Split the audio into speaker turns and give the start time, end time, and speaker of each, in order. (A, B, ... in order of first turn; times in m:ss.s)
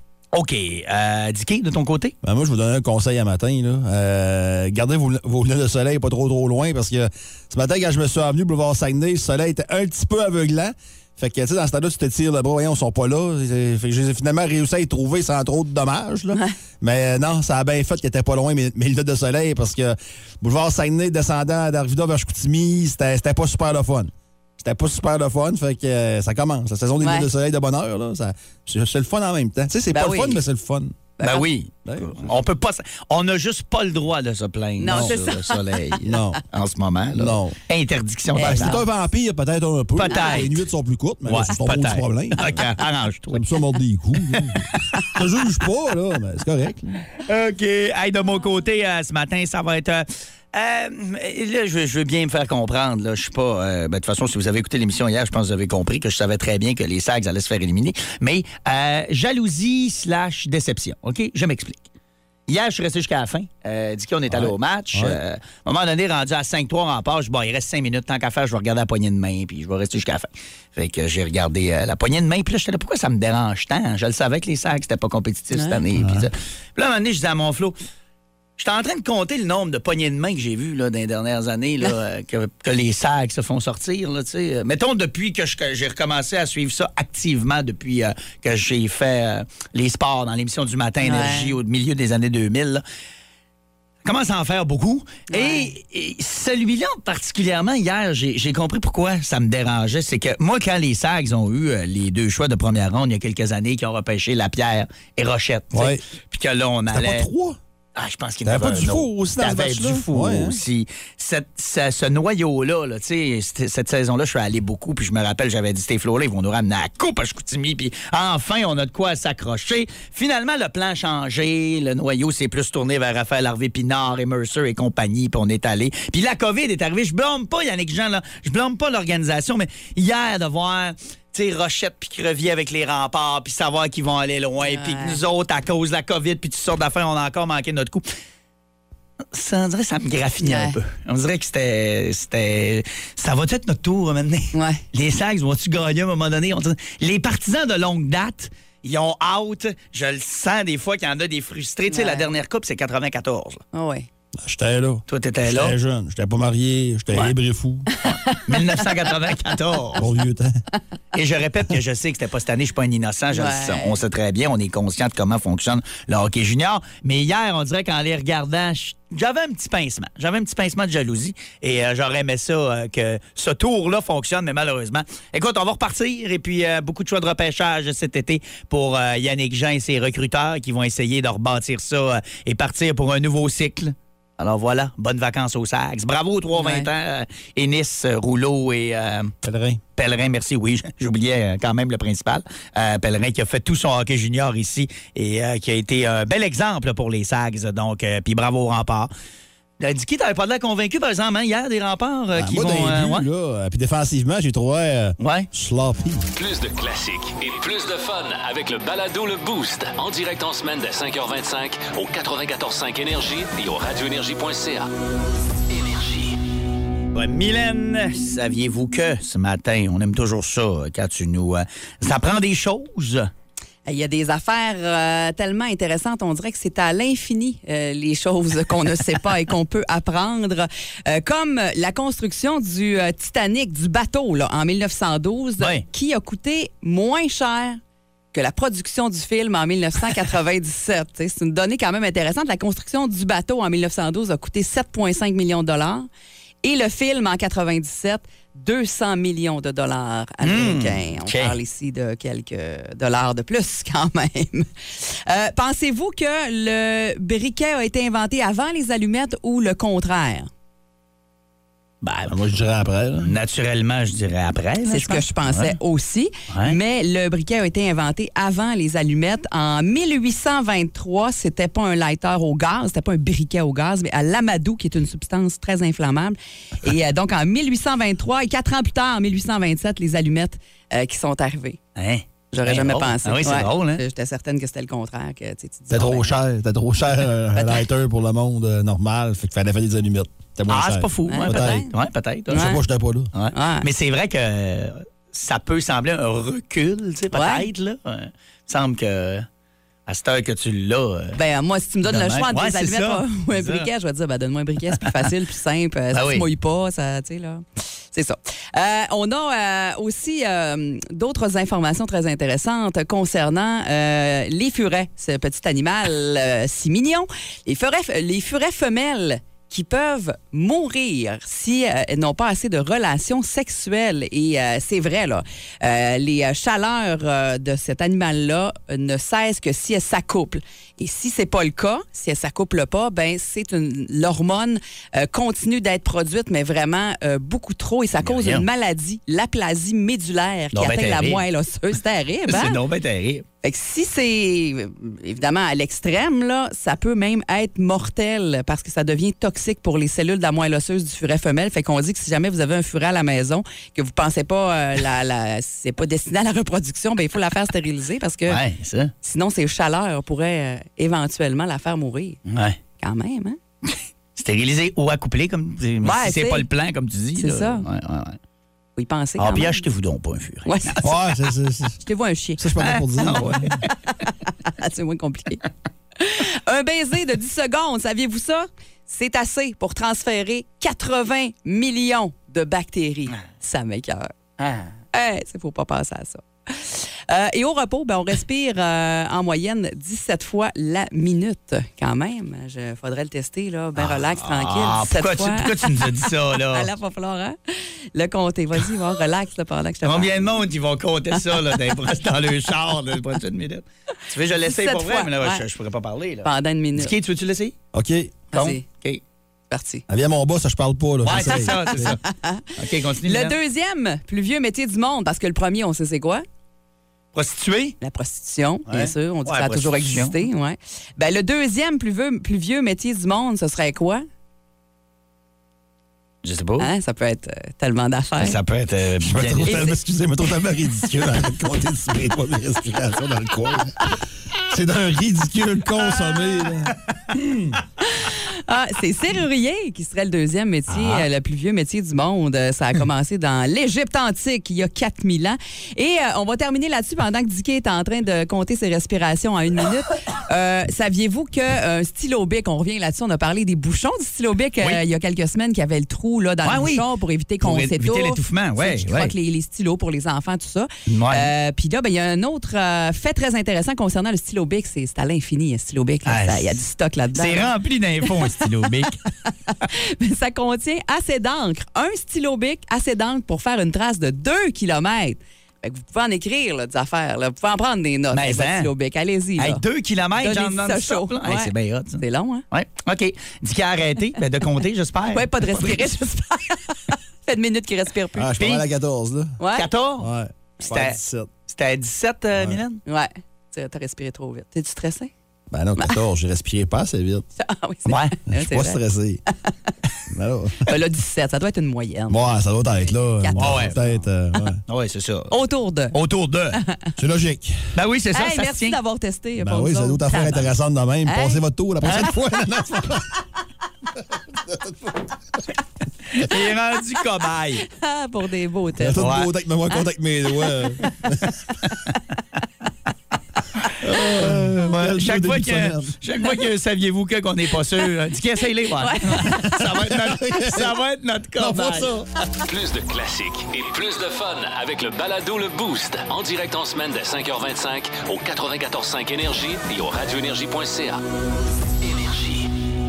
0:00.3-0:02.1 A
0:02.2-0:31.0 B
0:27.0-0:27.3 C
0:29.9-0:30.4 C
0:31.2-0:31.5 C
0:31.2-0:38.8 A
0:31.8-0:32.3 B
0:34.8-0:35.9 C
0:34.9-0:35.2 B
0:36.0-0:36.4 B
0:37.1-0:37.6 B
0:38.3-0:38.8 C
0:38.4-0:42.6 B
0:40.0-0:40.6 A
0:40.1-0:40.4 C
0:41.2-0:43.4 A
0:43.3-0:47.0 B
0:44.3-0:44.8 A
0:47.2-1:01.8 A
1:02.5-1:17.8 A
1:04.3-1:05.2 B
1:15.5-1:15.8 C
1:15.9-1:16.3 B
1:18.6-1:32.8 A
1:31.0-1:31.6 C
1:34.0-1:47.3 A
1:35.3-1:35.7 C
1:45.7-1:46.0 B
1:46.9-1:47.6 B
1:48.0-2:18.0 A
1:48.4-1:50.6 B
2:14.6-2:15.2 C
2:19.3-2:33.6 A
2:20.4-2:20.8 C
2:24.5-2:24.8 C
2:31.9-2:32.3 C
2:33.7-2:34.1 C
2:34.4-2:37.9 B
2:35.1-2:35.8 A
2:37.9-2:38.9 C
2:38.1-2:40.0 A
2:40.0-2:40.6 B
2:41.1-3:09.3 A
2:43.3-2:44.0 C
3:06.5-3:06.9 C
3:09.4-3:09.8 B
3:10.0-3:19.1 A
3:19.8-3:23.2 A
3:22.3-3:26.3 B
3:25.2-3:25.5 A
3:26.4-3:34.9 D
3:35.7-3:36.4 D
3:37.1-3:43.3 A
3:43.8-3:57.8 C
3:55.6-3:55.8 A
3:58.3-4:06.1 C
4:06.6-4:20.5 C
4:10.4-4:11.6 A
4:22.0-4:22.3 A
4:22.2-4:23.3 B
4:23.2-4:25.8 A
4:24.8-4:41.8 C
4:26.5-4:26.8 A
4:42.0-4:44.0 A
4:42.5-4:46.3 C
4:45.9-4:51.8 B
4:50.7-4:52.8 A
4:51.3-4:51.9 C
4:52.5-4:53.3 B
4:52.5-4:52.8 C
4:53.3-4:59.5 A
4:53.5-4:53.9 C
4:57.3-4:57.7 C
5:00.1-5:01.4 A
5:01.4-5:42.8 C
5:02.0-5:03.9 A
5:05.0-5:05.2 A
5:06.1-5:06.4 A
5:38.2-5:38.6 A
5:40.7-5:41.4 A
5:42.5-5:43.4 A
5:43.6-5:58.6 C
5:58.5-5:59.1 A
5:59.2-6:02.4 C
6:02.5-6:02.8 A
6:03.0-6:03.6 C
6:04.4-6:08.4 A
6:06.0-6:06.7 C
6:07.4-6:07.8 C
6:09.0-6:09.8 C
6:09.4-6:11.1 A
6:10.6-6:11.1 C
6:11.0-6:12.0 B
6:12.0-6:12.7 C
6:12.6-6:13.8 B
6:12.8-6:13.8 A
6:13.2-6:15.6 C
6:16.2-6:24.3 C
6:24.6-6:24.9 A
6:25.1-6:40.6 C
6:34.0-6:36.9 A
6:40.0-6:47.7 A
6:41.3-6:41.8 C
6:44.6-6:45.6 C
6:46.4-6:47.1 C
6:47.9-6:48.4 B
6:48.5-6:48.8 C
6:48.5-6:49.2 A
6:49.7-6:50.0 C
6:50.1-6:52.1 B
6:51.2-6:52.2 A
6:51.3-6:52.7 C
6:52.8-6:53.6 A
6:53.2-6:56.4 C
6:57.3-6:58.0 A
6:58.0-7:04.2 C
6:58.9-7:00.4 A
7:06.4-7:06.9 A
7:06.8-7:08.6 C
7:08.4-7:09.9 A
7:09.2-7:14.0 B
7:14.7-7:17.8 B
7:18.0-7:48.7 C
7:36.6-7:37.1 A
7:37.6-7:39.3 A
7:41.1-7:41.5 A
7:46.2-7:46.7 A
7:47.3-7:49.2 A
7:49.8-7:59.8 C
7:58.3-7:58.9 A
7:59.6-8:06.1 A
8:00.4-8:02.6 C
8:05.3-8:08.5 C
8:08.3-8:09.6 B
8:08.6-8:08.8 A
8:09.6-8:09.9 C
8:09.7-8:10.3 A
8:10.2-8:11.5 B
8:10.8-8:13.0 A
8:13.0-8:15.3 C
8:15.7-8:17.4 B
8:17.6-8:19.0 C
8:18.1-8:18.3 A
8:18.5-8:19.4 B
8:20.3-8:20.8 B
8:20.8-8:22.5 C
8:22.3-8:24.8 B
8:23.4-8:24.1 C
8:23.6-8:24.0 A
8:24.9-8:25.5 A
8:25.5-8:26.2 C
8:26.1-8:26.8 A
8:27.2-8:27.8 B
8:27.9-8:29.0 A
8:28.3-8:30.7 C
8:29.6-8:33.3 B
8:31.2-8:31.6 C
8:32.0-8:32.3 A
8:34.6-8:35.1 B
8:36.3-8:37.8 A
8:37.8-8:39.3 C
8:39.0-8:41.5 B
8:39.2-8:39.5 A
8:40.5-8:41.0 C
8:43.9-8:52.2 A
8:44.0-8:46.1 B
8:48.8-8:49.9 C
8:49.6-8:50.9 B
8:51.6-8:52.4 B
8:52.7-9:01.2 D
9:02.0-9:02.7 D